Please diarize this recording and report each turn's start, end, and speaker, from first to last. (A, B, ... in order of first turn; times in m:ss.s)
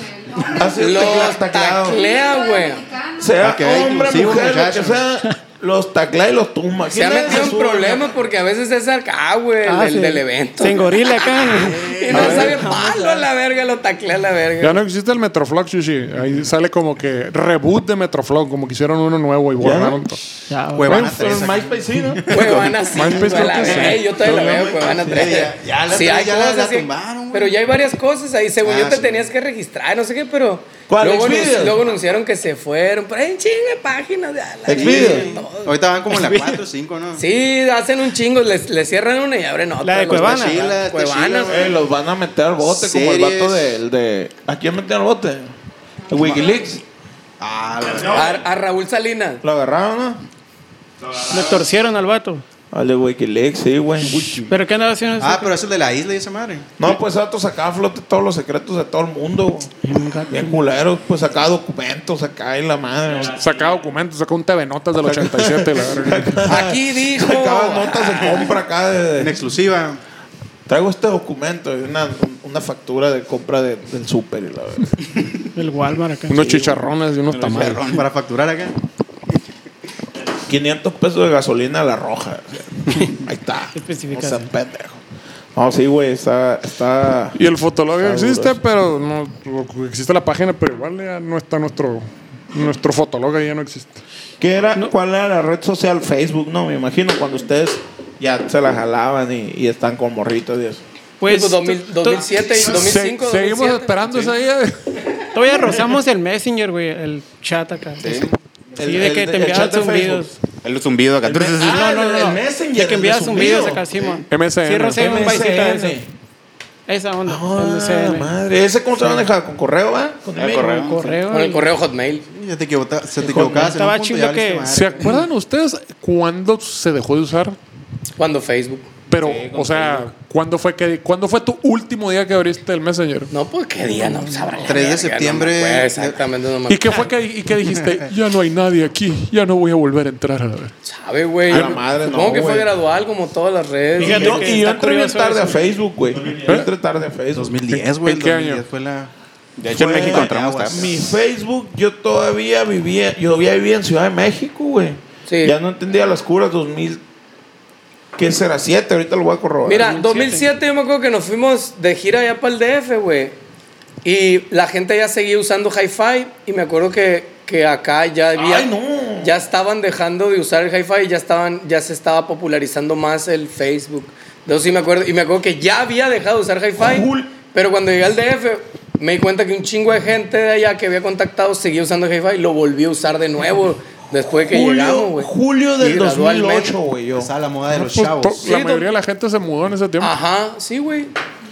0:00.4-0:02.0 A
0:00.8-0:03.0 B
0:03.2-0:08.2 A
0:03.4-0:05.1 C
0:06.9-0:14.8 B
0:09.6-0:13.2 D
0:12.1-0:12.6 A
0:14.6-0:20.2 E
0:19.6-0:20.0 A
0:20.5-0:21.0 D
0:20.7-0:22.6 C
0:20.9-0:22.8 A
0:22.3-0:35.8 B
0:22.9-0:25.0 E
0:24.3-0:24.7 A
0:25.0-0:27.6 C
0:28.6-0:29.3 C
0:30.9-0:31.8 A
0:34.7-0:35.3 A
0:34.7-0:37.2 C
0:36.1-0:36.6 D
0:37.2-0:41.7 B
0:39.8-0:40.6 D
0:40.1-0:41.8 C
0:41.5-0:45.5 A
0:42.6-0:43.8 C
0:46.1-0:46.8 A
0:46.2-0:46.4 C
0:47.4-0:48.4 C
0:48.1-0:49.4 B
0:49.4-0:50.2 A
0:51.2-0:52.4 D
0:52.7-0:54.5 A
0:54.5-0:55.6 D
0:55.2-0:56.7 C
0:56.8-0:59.7 A
0:59.8-1:00.6 D
1:00.3-1:03.5 A
1:03.4-1:06.4 E
1:05.0-1:09.4 A
1:06.5-1:08.6 B
1:09.2-1:10.0 C
1:10.7-1:15.0 A
1:15.6-1:16.7 D
1:16.3-1:17.8 E
1:17.3-1:18.0 F
1:17.9-1:18.8 C
1:20.5-1:25.0 A
1:23.7-1:24.4 D
1:25.6-1:27.4 A
1:27.4-1:34.0 E
1:27.9-1:28.6 A
1:34.4-1:40.8 A
1:41.2-1:42.6 D
1:41.2-1:44.0 B
1:42.6-1:45.0 E
1:45.3-1:50.4 D
1:48.0-1:48.3 F
1:48.8-1:50.3 A
1:50.6-1:52.0 F
1:51.2-1:53.9 A
1:51.7-1:56.0 D
1:54.3-1:55.1 E
1:55.0-1:56.1 A
1:56.9-1:58.3 D
1:57.3-2:01.2 A
2:00.4-2:01.0 F
2:00.7-2:01.7 D
2:01.3-2:02.2 B
2:02.3-2:05.2 C
2:03.2-2:03.8 A
2:03.5-2:04.9 D
2:04.7-2:07.6 E
2:08.2-2:08.9 B
2:09.1-2:13.3 E
2:09.2-2:10.0 F
2:13.3-2:17.1 B
2:14.6-2:16.2 C
2:16.7-2:20.7 E
2:17.7-2:18.1 C
2:20.9-2:24.5 B
2:21.5-2:22.7 A
2:24.0-2:25.7 D
2:24.0-2:27.6 A
2:27.3-2:29.1 C
2:27.7-2:28.6 E
2:29.6-2:30.9 F
2:29.7-2:37.0 A
2:29.8-2:31.2 C
2:35.3-2:35.6 B
2:38.2-2:39.9 A
2:39.6-2:43.4 B
2:39.8-2:40.5 D
2:44.0-3:06.7 B
2:48.4-2:49.3 A
2:56.8-2:57.3 A
3:04.5-3:07.3 A
3:07.1-3:08.5 C
3:07.8-3:10.2 E
3:08.5-3:08.8 B
3:10.0-3:11.1 B